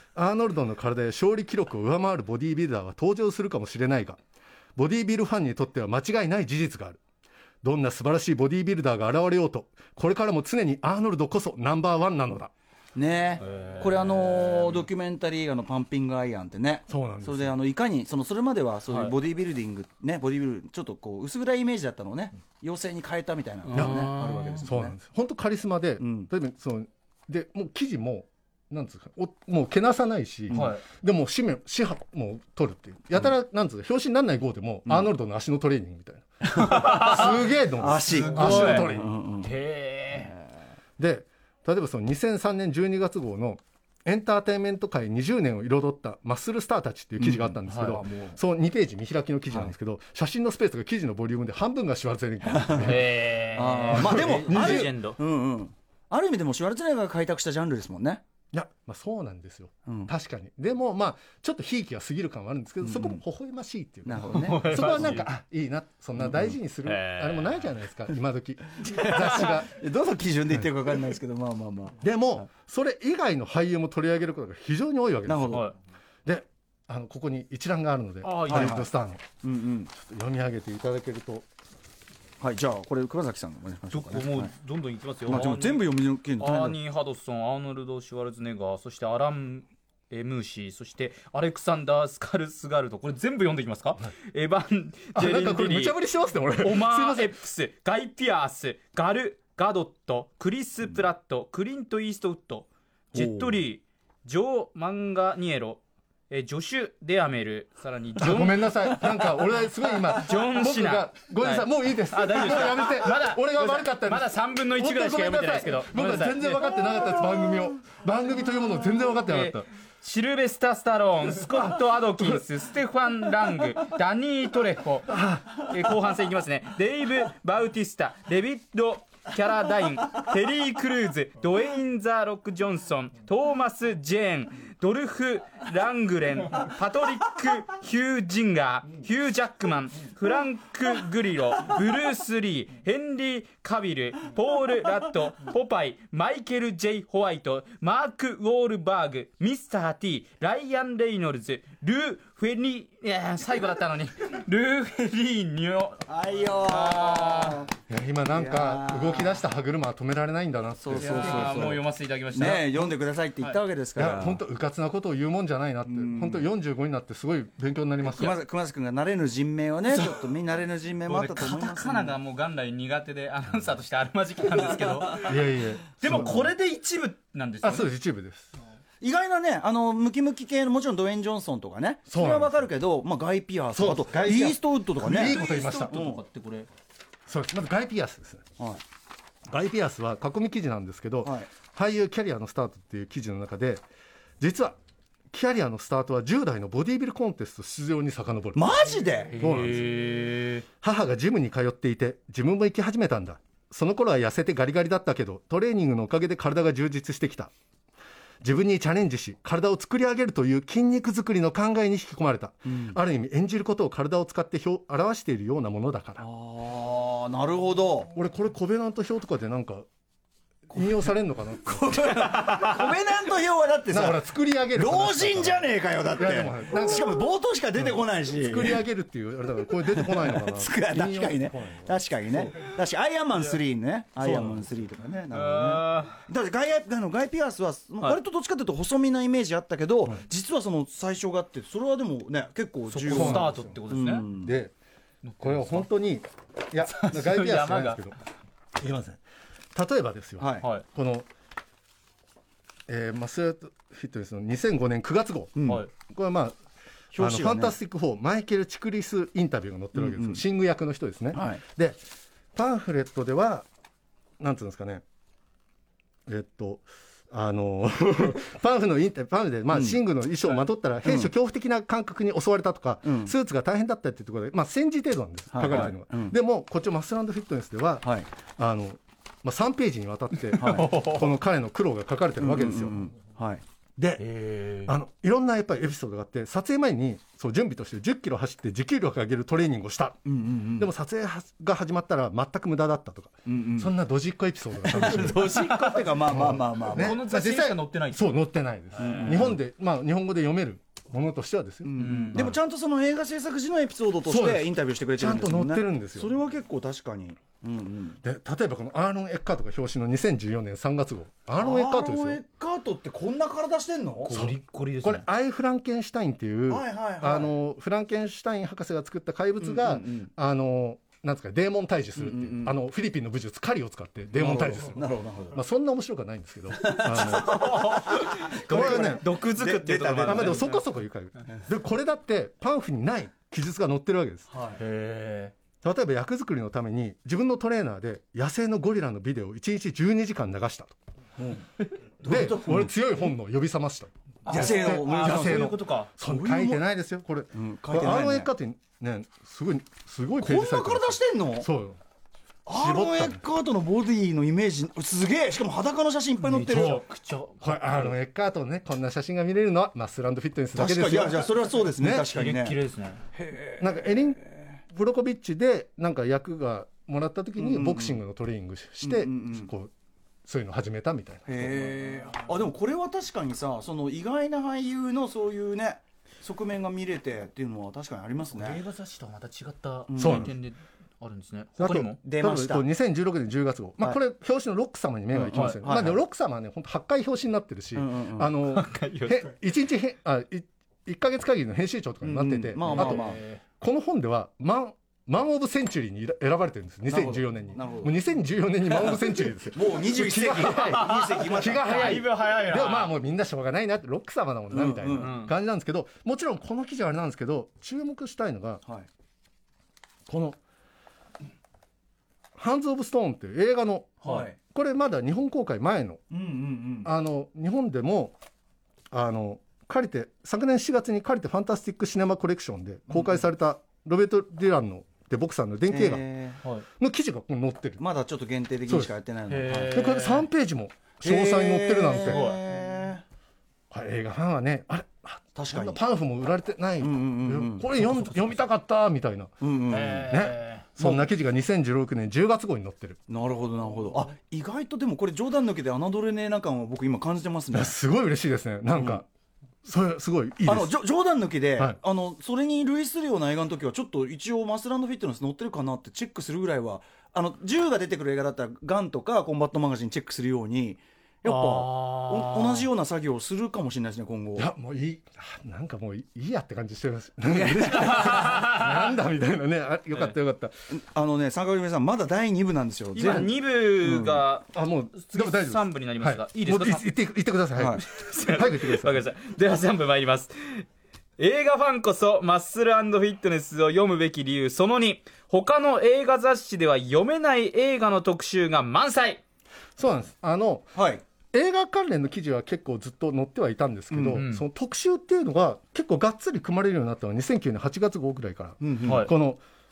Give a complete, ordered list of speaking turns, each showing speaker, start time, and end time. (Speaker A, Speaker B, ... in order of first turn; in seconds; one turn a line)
Speaker A: 0.1-4.2
Speaker A: 4.8-7.0
Speaker A: 7.6-12.5
Speaker B: 12.9-24.9
Speaker C: 13.4-14.2
Speaker A: 16.9-17.6
Speaker C: 18.9-19.1
Speaker C: 23.7-24.7
Speaker A: 23.8-24.1
Speaker A: 24.6-39.1
Speaker B: 26.0-26.3
Speaker B: 30.5-30.8
Speaker C: 30.5-30.8
Speaker B: 36.5-39.5
Speaker C: 36.5-37.4
Speaker C: 38.1-40.4
Speaker A: 41.0-53.1
Speaker B: 47.2-48.4
Speaker C: 47.7-48.0
Speaker B: 52.5-53.0
Speaker C: 52.8-55.2
Speaker B: 53.5-58.2
Speaker A: 53.9-55.0
Speaker A: 58.5-69.7
Speaker B: 59.9-60.1
Speaker B: 62.8-63.2
Speaker B: 64.1-65.2
Speaker C: 64.3-65.3
Speaker B: 66.2-66.6
Speaker C: 66.8-67.7
Speaker B: 68.9-72.0
Speaker C: 68.9-69.5
Speaker A: 72.0-75.7
Speaker B: 75.3-75.7
Speaker C: 75.5-75.8
Speaker A: 76.2-79.2
Speaker C: 78.2-78.8
Speaker B: 78.5-78.9
Speaker B: 79.4-79.9
Speaker A: 80.0-81.5
Speaker B: 82.4-84.5
Speaker C: 83.9-85.9
Speaker B: 85.3-86.8
Speaker C: 86.4-96.0
Speaker A: 95.2-97.3
Speaker C: 96.6-109.1
Speaker A: 103.1-103.5
Speaker A: 108.2-119.7
Speaker C: 110.1-116.7
Speaker C: 119.3-156.0
Speaker A: 125.1-125.7
Speaker B: 156.1-157.7
Speaker C: 156.6-157.7
Speaker A: 157.9-161.7
Speaker B: 158.3-159.4
Speaker B: 160.8-164.4
Speaker C: 161.0-162.9
Speaker A: 164.0-168.4
Speaker B: 165.9-166.5
Speaker B: 168.1-172.2
Speaker C: 171.1-175.3
Speaker A: 175.2-176.5
Speaker C: 176.0-177.9
Speaker B: 176.1-176.4
Speaker A: 177.6-178.5
Speaker B: 179.0-185.4
Speaker A: 182.1-182.6
Speaker A: 183.7-186.0
Speaker C: 185.1-186.7
Speaker B: 185.9-186.2
Speaker A: 187.3-188.5
Speaker A: 189.5-193.8
Speaker B: 191.2-191.5
Speaker A: 194.4-194.8
Speaker A: 195.3-198.8
Speaker B: 198.6-199.4
Speaker A: 199.3-199.9
Speaker C: 199.3-200.7
Speaker A: 200.8-207.5
Speaker A: 208.4-216.2
Speaker B: 212.7-213.0
Speaker B: 216.2-218.1
Speaker A: 218.1-219.9
Speaker A: 220.7-222.2
Speaker B: 220.7-221.1
Speaker B: 221.6-224.2
Speaker C: 222.1-222.9
Speaker A: 223.9-227.1
Speaker B: 224.8-228.8
Speaker A: 227.8-231.9
Speaker B: 229.8-244.6
Speaker A: 234.2-234.6
Speaker C: 235.3-236.2
Speaker C: 242.9-244.3
Speaker A: 243.1-243.8
Speaker A: 244.4-244.7
Speaker C: 245.2-245.9
Speaker A: 245.4-248.2
Speaker C: 246.8-248.0
Speaker A: 248.8-249.2
Speaker A: 249.7-251.3
Speaker B: 250.4-250.7
Speaker A: 252.9-256.6
Speaker B: 255.6-255.8
Speaker B: 257.1-257.8
Speaker A: 257.2-262.0
Speaker B: 259.9-260.4
Speaker B: 261.3-261.6
Speaker A: 262.6-263.7
Speaker A: 264.4-265.0
Speaker A: 266.3-283.0
Speaker B: 269.7-270.0
Speaker B: 271.0-271.3
Speaker B: 273.0-273.3
Speaker B: 275.5-276.4
Speaker C: 280.5-281.3
Speaker B: 280.6-281.0
Speaker B: 282.4-283.6
Speaker A: 284.0-290.2
Speaker C: 284.2-284.9
Speaker B: 290.3-290.9
Speaker A: 290.8-295.6
Speaker B: 293.5-293.9
Speaker B: 294.8-297.2
Speaker C: 295.3-296.3
Speaker A: 296.3-302.6
Speaker C: 296.9-298.2
Speaker C: 299.0-299.4
Speaker B: 299.0-299.6
Speaker B: 301.9-308.2
Speaker C: 302.0-302.5
Speaker A: 304.3-306.3
Speaker A: 308.2-312.4
Speaker B: 311.6-314.4
Speaker C: 314.3-315.2
Speaker A: 314.3-327.9
Speaker B: 316.7-317.5
Speaker B: 319.6-320.3
Speaker B: 322.2-322.7
Speaker B: 324.3-325.6
Speaker B: 326.8-330.8
Speaker C: 327.3-330.8
Speaker A: 328.7-329.3
Speaker A: 330.2-334.5
Speaker B: 334.5-334.8
Speaker C: 334.8-335.5
Speaker A: 335.8-340.9
Speaker B: 341.4-341.6
Speaker B: 342.2-342.9
Speaker A: 342.2-352.0
Speaker C: 344.5-346.1
Speaker B: 344.5-346.8
Speaker B: 347.5-348.5
Speaker B: 350.4-351.7
Speaker B: 352.7-357.0
Speaker A: 352.7-353.4
Speaker C: 356.4-358.1
Speaker A: 357.6-362.3
Speaker B: 360.8-362.8
Speaker C: 362.3-363.2
Speaker B: 363.3-364.8
Speaker A: 363.8-369.9
Speaker B: 367.6-368.2
Speaker B: 369.0-369.7
Speaker A: 370.4-371.9
Speaker B: 371.5-378.8
Speaker C: 378.5-382.2
Speaker B: 380.1-380.5
Speaker A: 380.2-380.5
Speaker A: 381.8-408.8
Speaker B: 382.2-382.9
Speaker B: 385.3-386.2
Speaker C: 385.5-385.8
Speaker B: 387.9-388.5
Speaker C: 388.7-389.5
Speaker B: 392.2-393.4
Speaker C: 392.9-393.6
Speaker B: 397.1-398.2
Speaker B: 398.9-402.2
Speaker C: 400.8-403.1
Speaker B: 404.7-405.4
Speaker C: 405.2-405.5
Speaker A: 410.3-410.6
Speaker A: 412.6-416.2
Speaker B: 414.2-414.6
Speaker B: 416.3-417.1
Speaker A: 417.1-418.4
Speaker A: 419.1-426.2
Speaker B: 423.1-423.4
Speaker B: 425.9-426.6
Speaker A: 427.0-428.0
Speaker B: 428.0-430.0
Speaker C: 429.5-430.5
Speaker A: 429.9-432.6
Speaker B: 431.2-433.2
Speaker C: 432.2-432.6
Speaker A: 433.9-439.6
Speaker B: 435.6-436.0
Speaker B: 437.0-437.9
Speaker B: 439.6-440.3
Speaker C: 439.9-440.9
Speaker A: 440.3-443.2
Speaker B: 441.0-441.2
Speaker B: 443.3-447.9
Speaker A: 447.7-449.3
Speaker A: 449.8-450.9
Speaker B: 450.7-464.7
Speaker C: 461.5-462.9
Speaker A: 464.6-470.7
Speaker B: 467.5-468.4
Speaker C: 467.9-469.0
Speaker B: 470.9-474.4
Speaker C: 473.1-477.1
Speaker A: 474.7-479.2
Speaker B: 477.8-478.0
Speaker C: 478.0-480.9
Speaker C: 481.4-489.4
Speaker A: 490.0-490.9
Speaker B: 490.9-491.2
Speaker A: 491.5-499.6
Speaker B: 494.1-494.4
Speaker C: 494.3-494.6
Speaker B: 498.8-499.2
Speaker C: 499.0-499.3